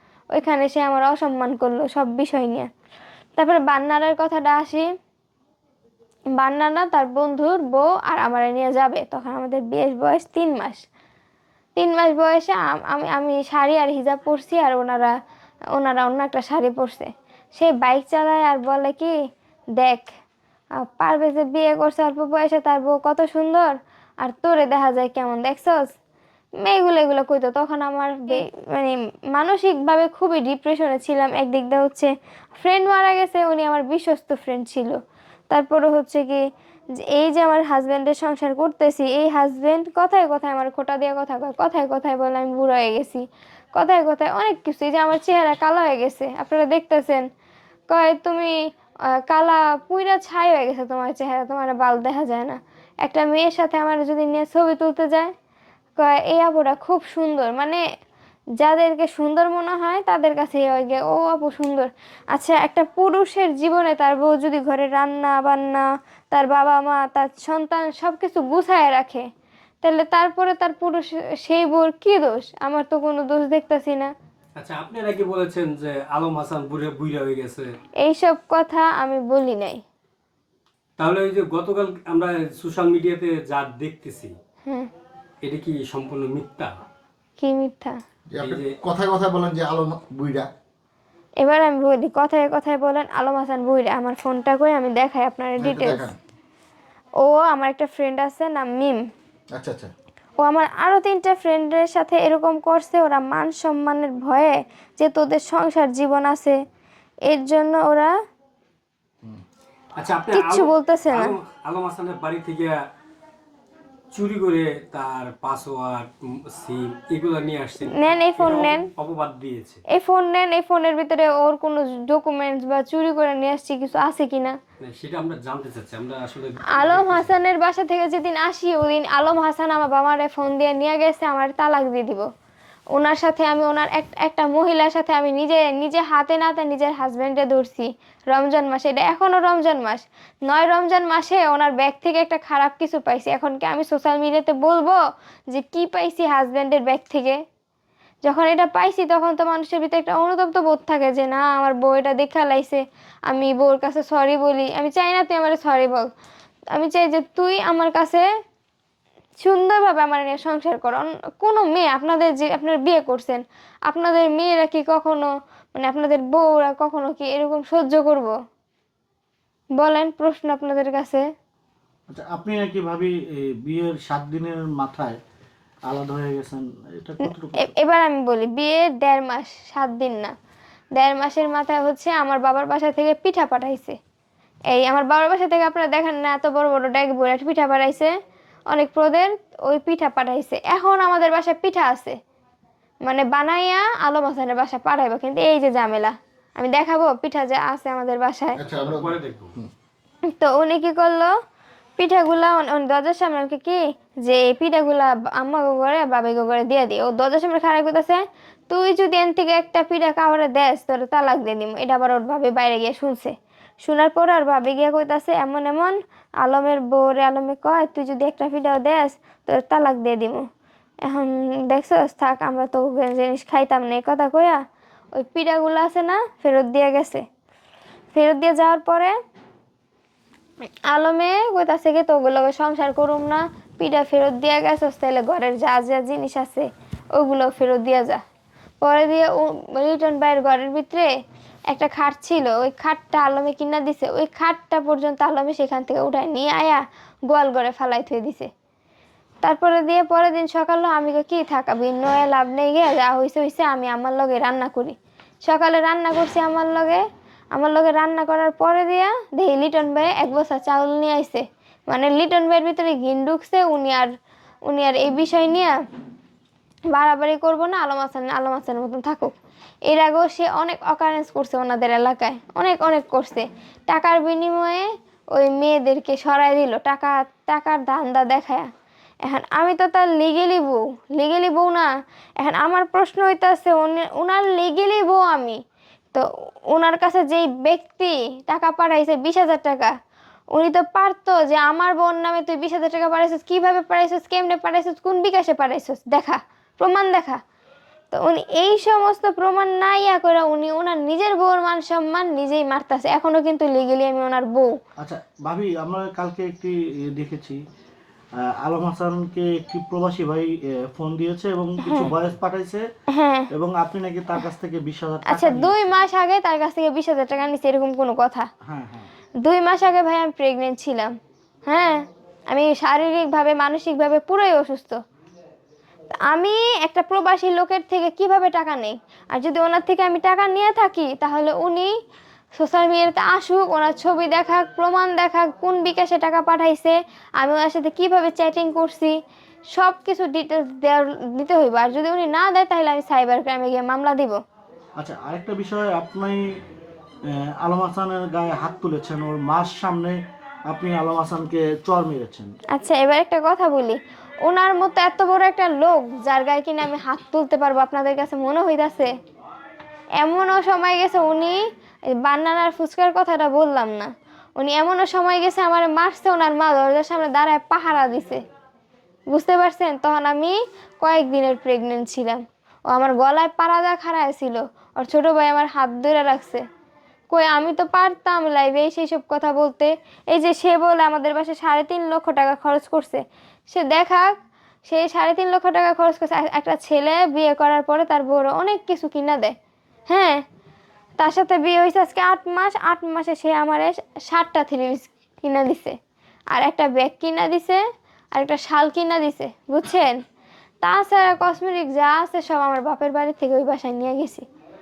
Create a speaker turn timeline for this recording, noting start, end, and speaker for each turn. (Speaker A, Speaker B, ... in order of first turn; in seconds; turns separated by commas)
Speaker A: 0.3-2.7, Speaker A: 3.4-4.9, Speaker A: 6.4-10.9, Speaker A: 11.8-15.2, Speaker A: 15.7-19.1, Speaker A: 19.8-20.1, Speaker A: 20.9-25.9, Speaker A: 26.6-35.0, Speaker A: 35.5-36.4, Speaker A: 37.0-43.2, Speaker A: 43.8-47.2, Speaker A: 47.9-48.5, Speaker A: 49.2-55.3, Speaker A: 56.0-57.8, Speaker A: 58.6-69.2, Speaker A: 69.8-74.1, Speaker B: 74.6-77.7, Speaker A: 78.0-79.8, Speaker B: 81.0-84.3, Speaker A: 84.7-84.9, Speaker B: 85.4-86.7, Speaker A: 87.4-88.0, Speaker C: 88.3-90.5, Speaker B: 88.4-88.8, Speaker A: 91.4-96.1, Speaker C: 95.6-96.2, Speaker A: 97.2-99.0, Speaker C: 99.5-99.9, Speaker A: 100.4-106.6, Speaker A: 107.3-108.1, Speaker B: 110.0-112.7, Speaker A: 110.3-111.4, Speaker B: 114.1-119.8, Speaker A: 117.9-118.9, Speaker A: 119.9-124.6, Speaker B: 124.8-127.3, Speaker A: 126.8-132.3, Speaker A: 132.9-145.0, Speaker A: 145.5-147.4, Speaker A: 148.2-156.1, Speaker A: 156.7-158.3, Speaker A: 159.4-168.3, Speaker A: 169.8-171.3, Speaker D: 172.1-175.2, Speaker D: 175.9-177.7, Speaker A: 177.2-180.3, Speaker A: 181.0-184.0, Speaker A: 184.7-188.1, Speaker A: 188.7-192.2, Speaker A: 193.1-198.6, Speaker C: 198.6-199.7, Speaker B: 198.8-199.6, Speaker A: 200.3-201.3, Speaker A: 202.0-220.4, Speaker A: 221.1-224.6, Speaker A: 225.2-227.2, Speaker A: 228.1-229.2, Speaker A: 230.9-238.2, Speaker A: 238.8-241.1, Speaker A: 241.7-248.5, Speaker A: 249.4-257.0, Speaker A: 257.6-264.1, Speaker A: 264.7-265.8, Speaker A: 266.9-269.3, Speaker A: 269.9-278.7, Speaker A: 279.2-285.6, Speaker A: 286.1-289.9, Speaker A: 290.5-297.4, Speaker A: 298.1-304.7, Speaker D: 305.0-307.6, Speaker D: 308.4-312.8, Speaker A: 311.8-312.1, Speaker A: 313.1-313.5, Speaker D: 313.5-315.9, Speaker A: 315.3-318.5, Speaker D: 318.7-319.1, Speaker A: 319.4-321.1, Speaker A: 321.7-325.0, Speaker A: 326.2-331.9, Speaker A: 332.6-339.2, Speaker A: 339.7-344.4, Speaker D: 345.0-346.6, Speaker D: 347.3-352.5, Speaker A: 352.7-359.1, Speaker A: 360.2-368.4, Speaker A: 369.3-376.6, Speaker A: 377.3-384.4, Speaker A: 384.9-389.6, Speaker A: 390.1-390.4, Speaker A: 391.2-396.0, Speaker A: 396.5-397.8, Speaker A: 398.3-400.2, Speaker A: 400.8-404.5